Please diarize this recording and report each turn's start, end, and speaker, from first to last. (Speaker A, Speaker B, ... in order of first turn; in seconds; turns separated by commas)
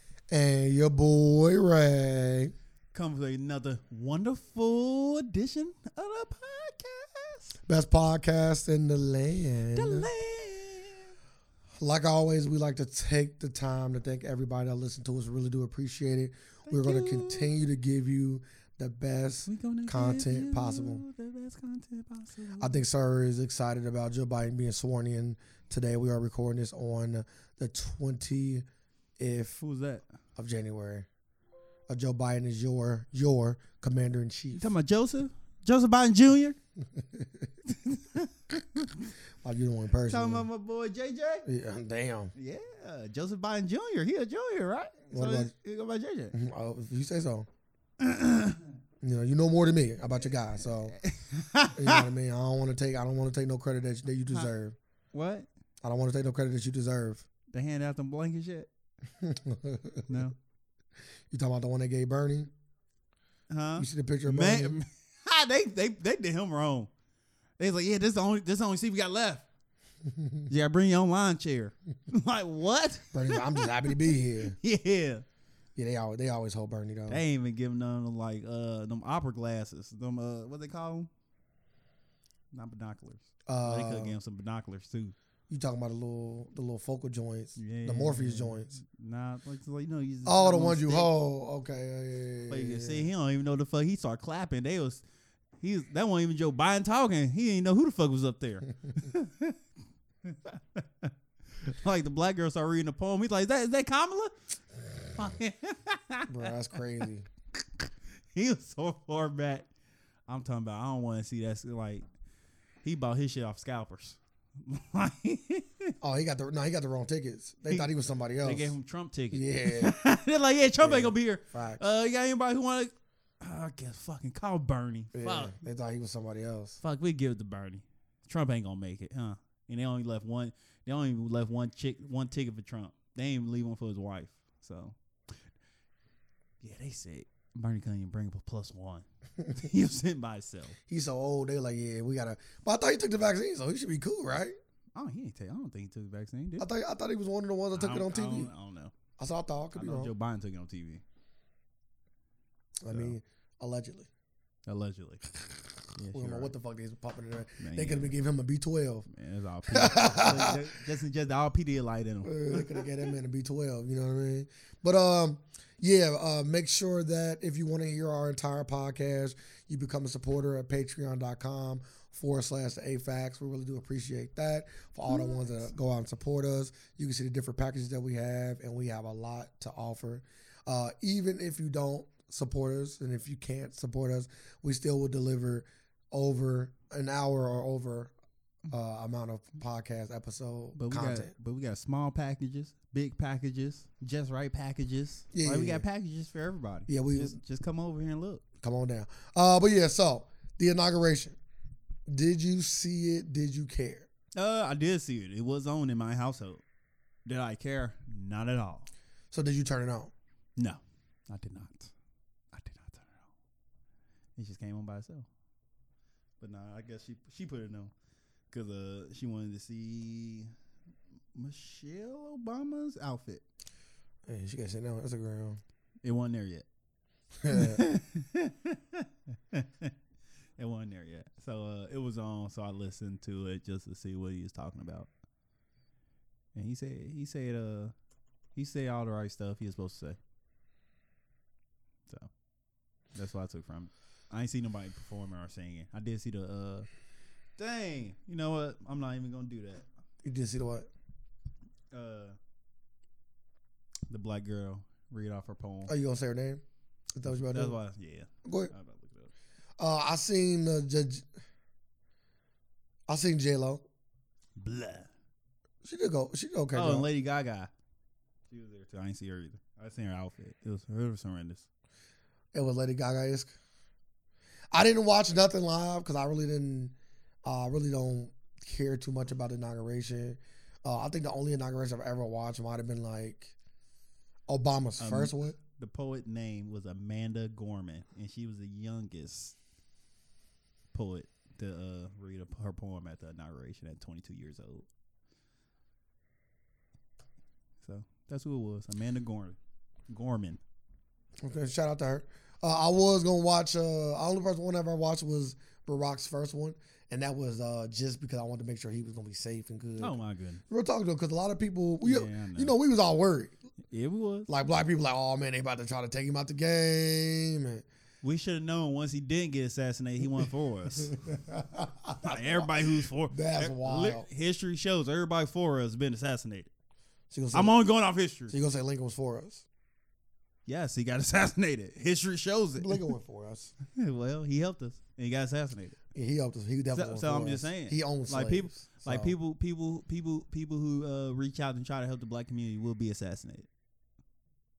Speaker A: 0.3-2.5, Speaker B: 2.9-7.6, Speaker A: 7.7-10.1, Speaker B: 9.7-11.1, Speaker A: 11.8-21.0, Speaker B: 16.7-17.5, Speaker B: 19.5-22.8, Speaker A: 22.6-28.6, Speaker A: 29.2-29.6, Speaker B: 29.6-30.0, Speaker A: 30.4-31.1, Speaker A: 31.9-34.7, Speaker B: 34.6-36.6, Speaker A: 36.9-37.5, Speaker B: 37.7-39.1, Speaker A: 39.4-40.5, Speaker B: 40.1-41.5, Speaker A: 41.5-42.3, Speaker B: 42.4-46.4, Speaker A: 45.1-45.5, Speaker A: 46.3-47.5, Speaker B: 48.0-48.6, Speaker A: 49.0-51.0, Speaker B: 50.9-52.1, Speaker A: 51.8-54.8, Speaker B: 55.1-55.5, Speaker A: 55.8-57.3, Speaker B: 57.5-58.7, Speaker A: 59.2-60.0, Speaker B: 60.1-60.4, Speaker A: 61.3-62.5, Speaker B: 63.5-66.9, Speaker A: 63.8-64.8, Speaker B: 67.6-69.5, Speaker A: 70.0-70.5, Speaker B: 70.5-75.2, Speaker A: 73.1-74.5, Speaker A: 75.8-77.2, Speaker B: 77.1-81.1, Speaker B: 82.5-85.2, Speaker A: 83.5-84.2, Speaker A: 85.5-88.8, Speaker B: 87.6-91.1, Speaker A: 90.3-93.1, Speaker B: 92.5-95.0, Speaker B: 95.6-99.6, Speaker B: 100.2-101.1, Speaker B: 101.6-104.3, Speaker B: 105.1-106.8, Speaker A: 106.3-107.3, Speaker B: 107.6-109.7, Speaker B: 110.3-112.1, Speaker B: 112.8-115.9, Speaker A: 116.0-118.7, Speaker B: 118.4-125.5, Speaker A: 119.3-120.0, Speaker A: 120.8-121.8, Speaker A: 125.1-126.8, Speaker B: 126.8-135.0, Speaker B: 136.6-140.8, Speaker A: 140.9-144.6, Speaker B: 144.9-146.7, Speaker A: 146.6-148.5, Speaker B: 147.7-148.9, Speaker A: 149.2-150.1, Speaker B: 149.8-151.0, Speaker A: 152.8-154.1, Speaker B: 152.9-153.2, Speaker B: 154.7-155.2, Speaker B: 155.9-156.5, Speaker A: 156.1-159.1, Speaker B: 157.6-158.1, Speaker B: 159.1-162.9, Speaker A: 159.7-160.6, Speaker A: 162.2-188.1, Speaker B: 175.1-175.6, Speaker A: 188.7-191.3, Speaker B: 190.8-198.4, Speaker A: 195.3-195.8, Speaker A: 196.9-197.4, Speaker A: 198.6-201.4, Speaker A: 202.1-204.1, Speaker B: 204.3-206.6, Speaker B: 207.3-208.9, Speaker A: 209.3-210.1, Speaker B: 210.6-211.9, Speaker B: 212.5-213.3, Speaker B: 214.4-215.3, Speaker B: 216.4-217.9, Speaker B: 218.5-220.5, Speaker B: 221.3-223.4, Speaker A: 224.3-225.6, Speaker B: 226.0-226.7, Speaker A: 227.4-227.8, Speaker B: 227.5-229.9, Speaker B: 230.6-235.1, Speaker B: 236.6-237.9, Speaker B: 238.6-240.2, Speaker B: 243.2-246.9, Speaker B: 247.6-249.9, Speaker A: 250.2-250.9, Speaker B: 251.9-252.4, Speaker B: 254.1-255.9, Speaker A: 255.9-256.6, Speaker A: 257.1-257.8, Speaker B: 257.3-259.3, Speaker A: 258.4-258.7, Speaker A: 259.8-261.3, Speaker A: 263.1-263.8, Speaker B: 264.6-265.1, Speaker A: 265.8-267.1, Speaker B: 266.7-267.7, Speaker B: 268.5-271.7, Speaker A: 272.5-273.5, Speaker A: 274.7-276.9, Speaker A: 277.4-283.6, Speaker A: 284.5-285.6, Speaker B: 285.0-289.6, Speaker B: 290.9-294.9, Speaker B: 297.8-299.6, Speaker B: 300.1-300.6, Speaker A: 301.4-310.2, Speaker B: 310.0-310.6, Speaker A: 310.7-313.5, Speaker B: 312.0-312.7, Speaker B: 313.9-314.5, Speaker A: 314.5-317.9, Speaker B: 318.2-321.2, Speaker A: 321.0-324.3, Speaker B: 322.2-326.7, Speaker A: 327.3-327.7, Speaker B: 327.5-328.6, Speaker A: 328.5-329.6, Speaker B: 330.7-333.0, Speaker A: 332.8-333.7, Speaker B: 333.8-336.0, Speaker A: 336.1-339.3, Speaker B: 336.9-343.7